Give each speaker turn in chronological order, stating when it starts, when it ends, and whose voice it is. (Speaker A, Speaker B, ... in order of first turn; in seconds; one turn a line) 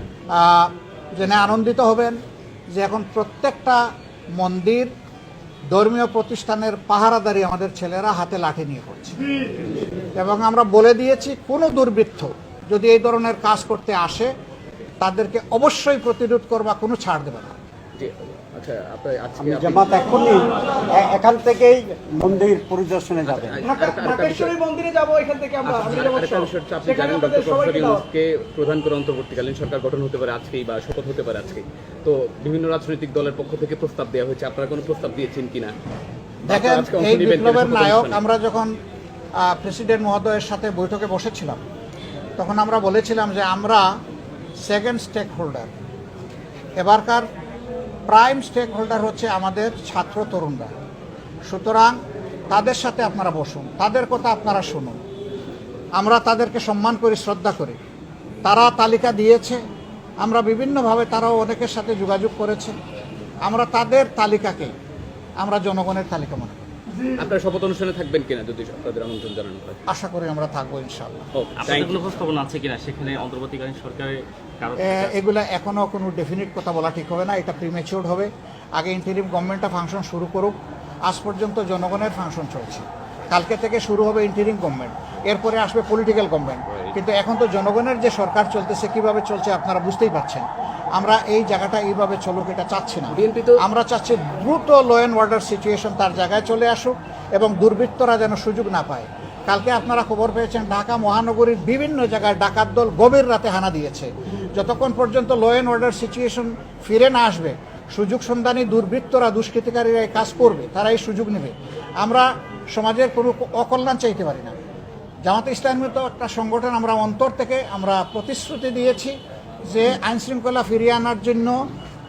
Speaker A: 0.3-2.2
Speaker A: 2.7-3.8
Speaker A: 4.4-4.9
Speaker A: 5.7-9.2
Speaker A: 10.2-14.3
Speaker A: 15.0-17.6
Speaker B: 18.0-20.1
Speaker C: 19.4-23.6
Speaker B: 23.2-24.5
Speaker D: 23.6-28.0
Speaker B: 25.6-35.7
Speaker B: 36.5-38.2
Speaker A: 36.5-38.7
Speaker A: 39.4-41.6
Speaker A: 42.4-43.9
Speaker A: 44.6-45.7
Speaker A: 46.8-47.3
Speaker A: 48.1-50.7
Speaker A: 51.5-52.0
Speaker A: 52.5-55.0
Speaker A: 56.0-57.8
Speaker A: 58.4-59.6
Speaker A: 60.2-62.8
Speaker A: 63.4-64.7
Speaker A: 65.4-66.7
Speaker B: 67.2-69.8
Speaker A: 69.9-71.2
Speaker B: 71.3-72.0
Speaker E: 71.6-75.1
Speaker A: 74.8-114.6
Speaker B: 93.1-93.6
Speaker A: 115.2-119.2
Speaker A: 119.7-121.6